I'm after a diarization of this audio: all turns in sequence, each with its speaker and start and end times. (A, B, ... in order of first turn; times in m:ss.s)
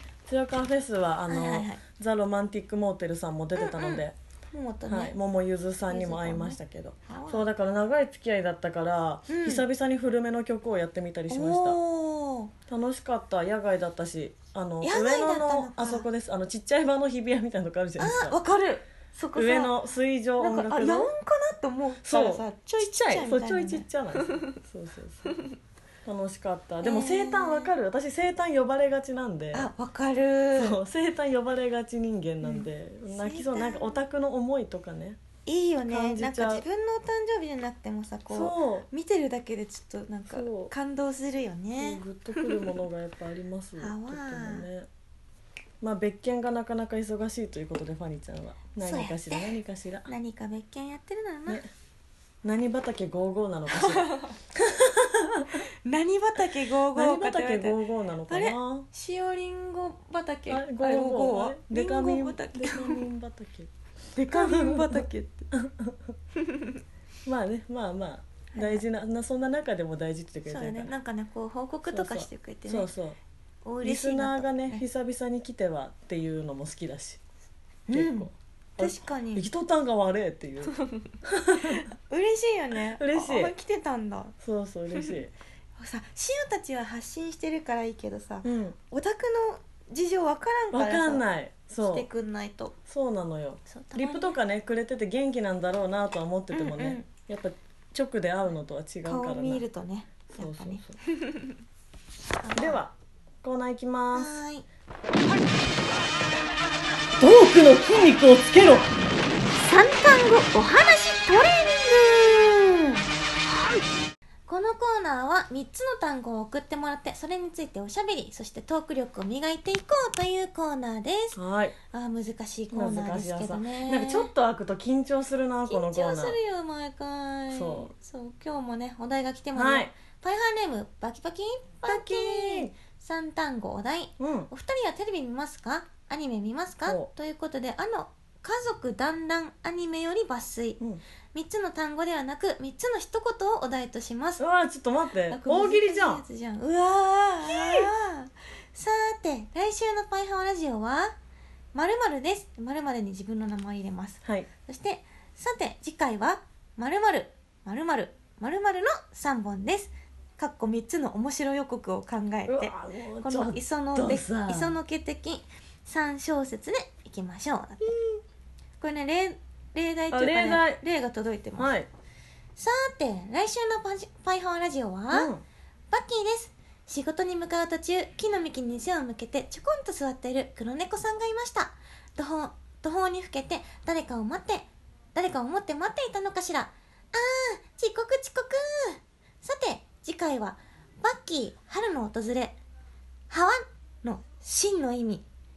0:00.3-0:04.1 A
0:01.3-0:01.8 B
0:03.6-0:05.1 B
0:04.9-0:11.8 A
0:05.9-0:07.5 B
0:09.3-0:09.6 B
0:11.3-0:12.5 B
0:12.7-0:18.4 A
0:14.8-0:16.1 B
0:18.0-0:19.8 B
0:19.3-0:21.1 A
0:20.4-0:24.5 B
0:22.0-0:25.3 A
0:26.0-0:29.7 A
0:26.8-0:27.7 B
0:29.5-0:30.8 B
0:30.6-0:35.2 A
0:32.4-0:34.0 B
0:35.4-0:42.7 B
0:35.9-0:36.6 A
0:38.3-0:38.9 A
0:40.3-0:40.7 A
0:41.8-0:44.9 A
0:43.8-0:44.6 B
0:45.8-0:50.1 A
0:48.8-0:49.5 B
0:50.0-0:51.6 B
0:52.4-0:55.6 A
0:53.7-0:54.3 B
0:55.8-1:03.1 B
0:56.9-0:58.9 A
1:00.5-1:03.7 A
1:04.1-1:05.5 B
1:04.3-1:06.1 A
1:07.2-1:10.9 A
1:08.5-1:08.8 B
1:10.4-1:12.9 B
1:11.8-1:13.2 A
1:13.6-1:14.8 B
1:13.8-1:17.2 A
1:17.9-1:19.4 B
1:17.9-1:21.8 A
1:20.7-1:24.3 B
1:22.9-1:23.5 A
1:24.4-1:25.3 A
1:25.8-1:31.2 B
1:28.4-1:28.8 A
1:30.7-1:32.1 A
1:31.8-1:32.7 B
1:32.9-1:39.6 A
1:33.7-1:34.4 B
1:36.5-1:37.1 B
1:39.0-1:41.4 B
1:40.3-1:41.0 A
1:42.4-1:42.8 B
1:42.5-1:44.3 A
1:44.1-1:44.6 B
1:47.2-1:48.9 A
1:49.6-1:53.0 B
1:54.5-2:01.4 B
2:01.4-2:01.7 A
2:01.9-2:04.3 B
2:02.7-2:06.4 A
2:05.7-2:20.8 B
2:07.5-2:07.9 A
2:09.5-2:09.9 A
2:11.8-2:12.7 A
2:14.2-2:14.5 A
2:21.3-2:24.4 B
2:24.4-2:26.2 A
2:25.3-2:31.1 B
2:27.4-2:27.9 A
2:31.7-2:48.0 B
2:34.2-2:34.5 A
2:42.4-2:44.8 A
2:48.8-2:51.7 B
2:50.1-2:50.8 A
2:51.6-2:51.9 A
2:52.6-2:55.3 B
2:55.1-2:55.4 A
2:55.9-3:12.6 B
3:13.3-3:15.2 B